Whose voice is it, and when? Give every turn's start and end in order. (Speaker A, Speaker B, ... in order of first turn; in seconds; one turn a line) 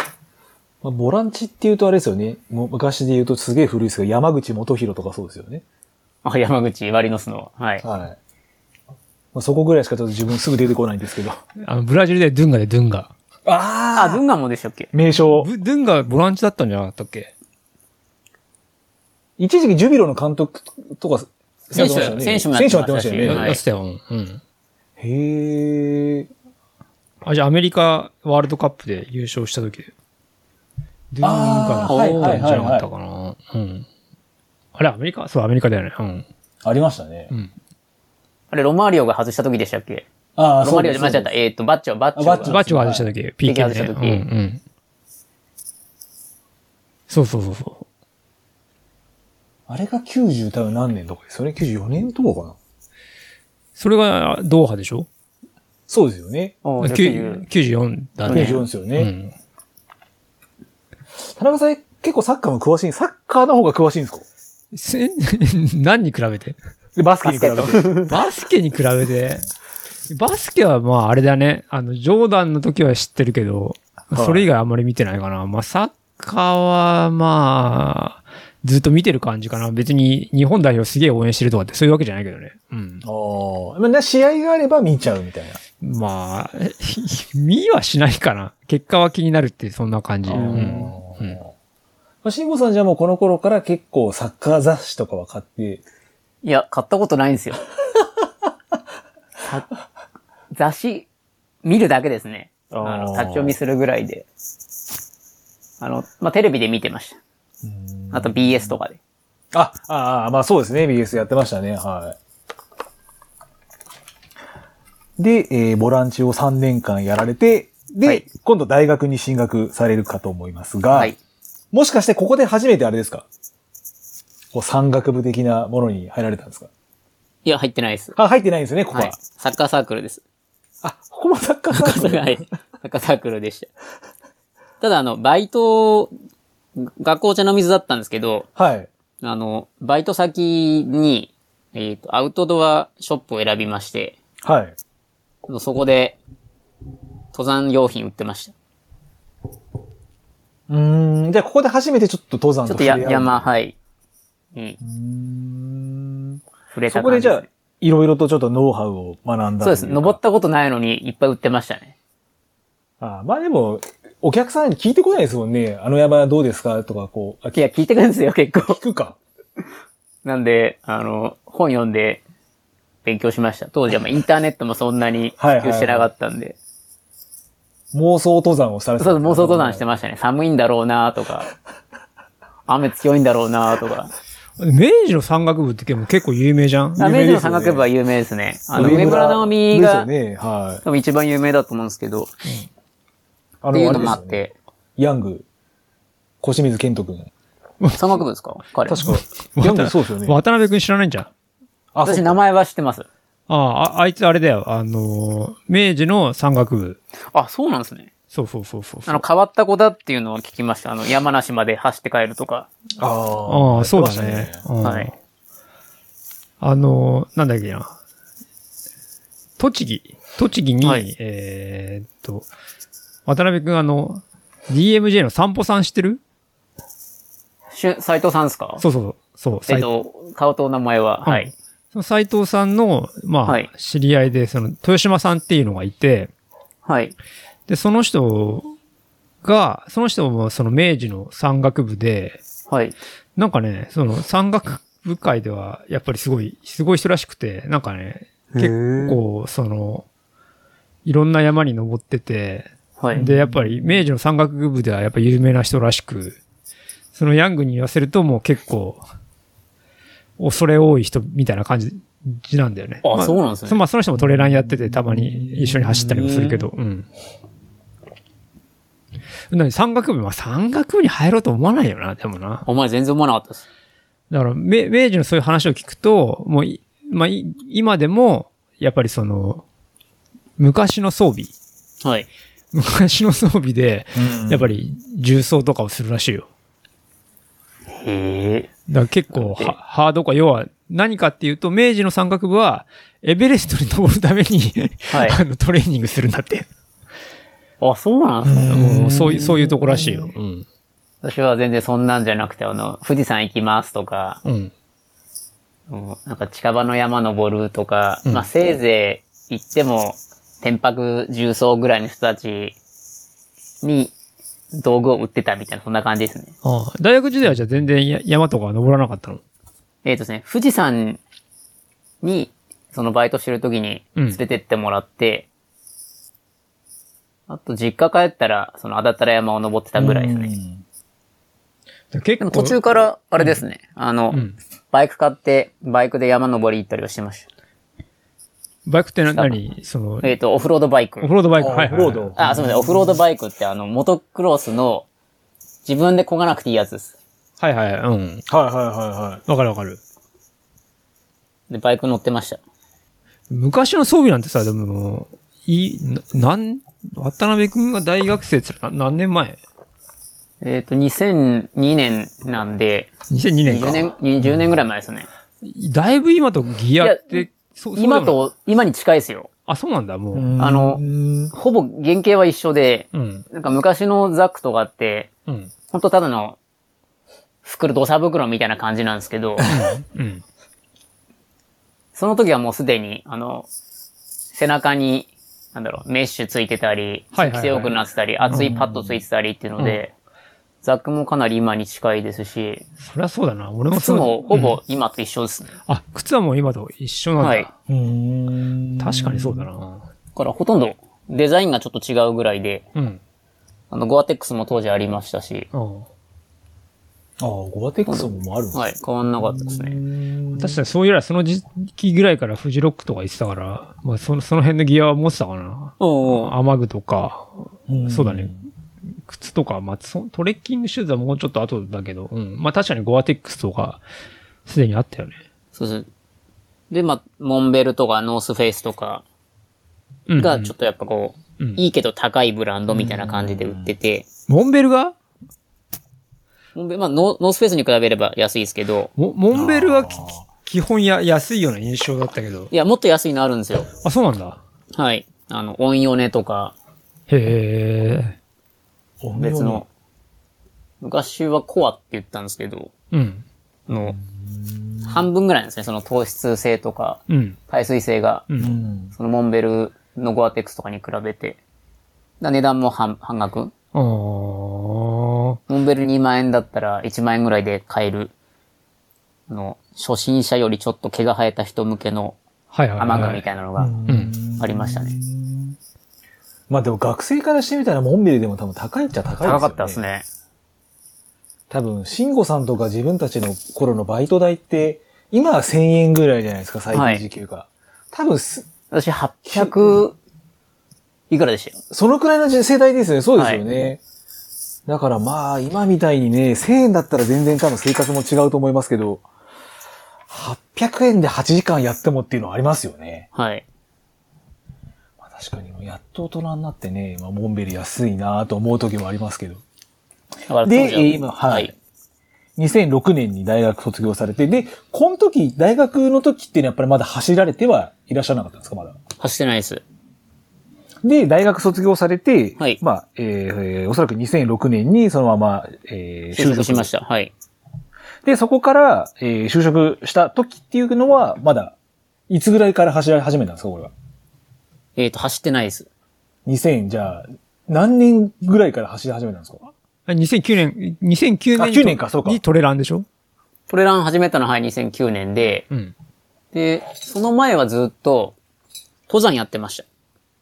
Speaker A: 0.8-5.6
Speaker B: 6.2-7.8
Speaker A: 7.8-8.2
Speaker A: 9.3-11.4
Speaker C: 11.6-13.1
Speaker A: 13.4-14.2
Speaker B: 13.9-14.9
Speaker A: 14.9-15.5
Speaker C: 15.3-17.3
Speaker A: 19.4-23.6
Speaker B: 21.7-23.6
Speaker C: 23.2-24.4
Speaker A: 25.0-26.3
Speaker C: 27.2-29.9
Speaker C: 31.1-33.9
Speaker A: 31.2-32.9
Speaker B: 31.8-32.5
Speaker C: 34.7-36.2
Speaker A: 36.6-37.3
Speaker B: 38.5-40.1
Speaker A: 40.4-41.3
Speaker B: 40.6-42.6
Speaker A: 42.1-43.1
Speaker C: 42.5-44.6
Speaker B: 43.4-44.2
Speaker C: 47.1-47.9
Speaker A: 49.7-52.5
Speaker C: 53.8-55.1
Speaker A: 55.9-56.6
Speaker B: 56.6-57.4
Speaker C: 56.8-59.3
Speaker A: 58.3-59.1
Speaker B: 58.3-58.6
Speaker A: 61.3-64.2
Speaker C: 64.7-66.6
Speaker A: 67.0-67.9
Speaker B: 67.2-68.2
Speaker C: 68.1-69.4
Speaker C: 70.1-83.0
Speaker A: 74.1-74.5
Speaker A: 83.0-85.6
Speaker C: 85.8-91.4
Speaker A: 90.3-91.5
Speaker B: 90.3-90.8
Speaker A: 92.2-95.8
Speaker B: 96.4-97.6
Speaker B: 100.5-101.1
Speaker B: 101.6-104.2
Speaker A: 102.7-103.5
Speaker B: 105.8-107.2
Speaker A: 107.6-108.7
Speaker B: 108.1-109.0
Speaker A: 109.5-112.2
Speaker A: 115.2-121.1
Speaker A: 121.7-123.2
Speaker A: 124.5-126.7
Speaker B: 127.4-128.2
Speaker A: 128.2-129.2
Speaker B: 128.9-130.2
Speaker A: 130.8-132.5
Speaker B: 131.7-133.7
Speaker B: 134.8-136.1
Speaker B: 136.8-138.5
Speaker A: 138.6-138.9
Speaker B: 139.2-144.2
Speaker A: 144.4-144.7
Speaker B: 145.5-146.2
Speaker B: 147.3-148.5
Speaker A: 150.7-153.4
Speaker B: 152.7-153.8
Speaker A: 154.8-160.2
Speaker B: 156.7-157.5
Speaker B: 159.6-161.9
Speaker A: 163.0-167.6
Speaker B: 167.5-168.8
Speaker A: 168.7-169.2
Speaker B: 170.2-172.2
Speaker B: 173.0-176.6
Speaker A: 175.4-176.1
Speaker A: 177.9-179.8
Speaker B: 179.0-181.5
Speaker B: 182.7-184.1
Speaker C: 184.6-187.0
Speaker A: 186.9-187.8
Speaker B: 187.0-190.1
Speaker A: 188.7-190.8
Speaker B: 190.8-192.3
Speaker A: 193.6-194.4
Speaker B: 193.7-194.5
Speaker A: 195.0-195.4
Speaker A: 196.4-197.3
Speaker C: 197.8-198.1
Speaker B: 197.9-199.0
Speaker A: 198.8-200.4
Speaker C: 199.0-201.3
Speaker A: 201.9-202.3
Speaker B: 202.0-203.1
Speaker C: 203.5-207.0
Speaker B: 207.3-208.1
Speaker C: 208.3-209.2
Speaker B: 209.1-212.7
Speaker A: 213.0-214.6
Speaker C: 213.5-215.1
Speaker B: 214.8-215.1
Speaker C: 216.6-218.0
Speaker C: 219.6-222.4
Speaker C: 223.2-226.2
Speaker B: 227.7-228.8
Speaker C: 228.8-229.9
Speaker B: 229.7-231.5
Speaker C: 231.2-236.3
Speaker B: 236.8-237.1
Speaker C: 237.7-238.7
Speaker C: 239.4-242.4
Speaker B: 242.7-242.9
Speaker C: 243.4-250.1
Speaker A: 248.6-249.2
Speaker C: 251.0-256.4
Speaker A: 253.1-254.1
Speaker C: 257.1-259.0
Speaker C: 260.4-267.1
Speaker B: 263.0-263.8
Speaker A: 264.1-266.6
Speaker C: 269.5-272.6
Speaker B: 272.6-273.6
Speaker C: 274.3-279.6
Speaker C: 280.6-281.5
Speaker B: 282.0-282.3
Speaker C: 282.7-286.5
Speaker A: 284.1-284.7
Speaker B: 287.9-288.7
Speaker C: 288.9-296.7
Speaker B: 289.3-289.7
Speaker B: 295.1-295.4
Speaker B: 297.8-298.9
Speaker A: 298.4-300.3
Speaker C: 298.7-300.6
Speaker B: 301.2-304.4
Speaker C: 304.4-304.7
Speaker B: 305.9-312.8
Speaker B: 313.8-314.1
Speaker B: 314.7-316.5
Speaker C: 316.6-319.4
Speaker B: 320.0-321.2
Speaker B: 322.2-325.5
Speaker B: 327.5-330.5
Speaker A: 330.0-330.8
Speaker C: 332.1-332.8
Speaker B: 332.4-337.5
Speaker C: 338.9-340.3
Speaker B: 339.3-339.6
Speaker B: 340.2-341.3
Speaker C: 341.2-342.4
Speaker A: 341.6-343.1
Speaker B: 342.4-345.1
Speaker B: 345.8-347.1
Speaker C: 347.6-348.4
Speaker A: 348.5-349.4
Speaker C: 349.5-350.0
Speaker B: 351.7-352.6
Speaker C: 353.5-359.6
Speaker B: 360.6-365.3
Speaker C: 363.3-364.1
Speaker C: 365.6-368.4
Speaker B: 367.0-369.5
Speaker C: 369.7-370.5
Speaker A: 370.3-371.5
Speaker B: 370.6-375.3
Speaker C: 373.1-373.4
Speaker B: 375.9-376.6
Speaker B: 377.6-379.7
Speaker C: 379.7-380.4
Speaker B: 382.1-383.7
Speaker B: 384.5-390.1
Speaker C: 387.3-387.9
Speaker A: 388.4-389.2
Speaker B: 390.8-392.9
Speaker C: 393.0-394.8
Speaker B: 393.9-395.7
Speaker C: 395.9-397.7
Speaker B: 397.4-397.7
Speaker A: 397.9-399.7
Speaker C: 399.0-400.0
Speaker B: 400.4-402.9
Speaker C: 402.9-403.2
Speaker B: 403.9-405.7
Speaker C: 405.7-406.1
Speaker A: 407.4-408.9
Speaker B: 408.1-410.0
Speaker A: 409.4-410.8
Speaker C: 410.6-418.5
Speaker B: 416.0-416.5
Speaker A: 417.9-418.5
Speaker C: 419.2-424.0
Speaker C: 424.6-425.4
Speaker B: 425.7-426.1
Speaker B: 426.9-429.2
Speaker C: 430.3-430.7
Speaker B: 430.4-434.3
Speaker A: 432.9-433.9
Speaker C: 434.5-435.1
Speaker B: 436.7-439.1
Speaker C: 439.2-442.7
Speaker A: 439.5-440.4
Speaker B: 442.7-443.9
Speaker C: 444.0-444.6
Speaker B: 444.9-446.7
Speaker C: 447.3-448.4
Speaker A: 449.2-449.8
Speaker B: 449.4-449.9
Speaker B: 451.0-452.9
Speaker C: 453.1-453.4
Speaker B: 453.9-454.1
Speaker A: 453.9-455.2
Speaker B: 455.0-458.4
Speaker C: 457.3-457.6
Speaker A: 458.6-459.1
Speaker B: 459.1-461.6
Speaker B: 462.4-463.7
Speaker C: 463.9-465.6
Speaker B: 465.7-468.3
Speaker B: 469.5-472.4
Speaker C: 472.7-473.4
Speaker B: 473.0-474.0
Speaker A: 473.8-475.8
Speaker C: 474.1-474.3
Speaker B: 474.6-475.1
Speaker A: 476.7-480.0
Speaker B: 479.4-480.2
Speaker A: 481.7-488.7
Speaker B: 486.9-487.2
Speaker B: 488.9-490.2
Speaker A: 489.4-489.9
Speaker B: 491.3-491.8
Speaker A: 491.9-494.0
Speaker B: 493.4-493.6
Speaker A: 494.9-499.2
Speaker A: 500.3-503.3
Speaker B: 503.3-503.6
Speaker A: 505.2-509.6
Speaker B: 510.5-511.7
Speaker A: 510.6-511.7
Speaker A: 512.6-519.0
Speaker B: 519.2-519.8
Speaker A: 521.0-526.9
Speaker B: 526.3-527.3
Speaker A: 528.2-531.7
Speaker A: 532.3-533.9
Speaker B: 535.0-535.9
Speaker A: 536.5-539.7
Speaker C: 540.1-543.0
Speaker A: 541.6-542.4
Speaker B: 543.7-545.7
Speaker B: 546.5-548.4
Speaker B: 549.1-549.9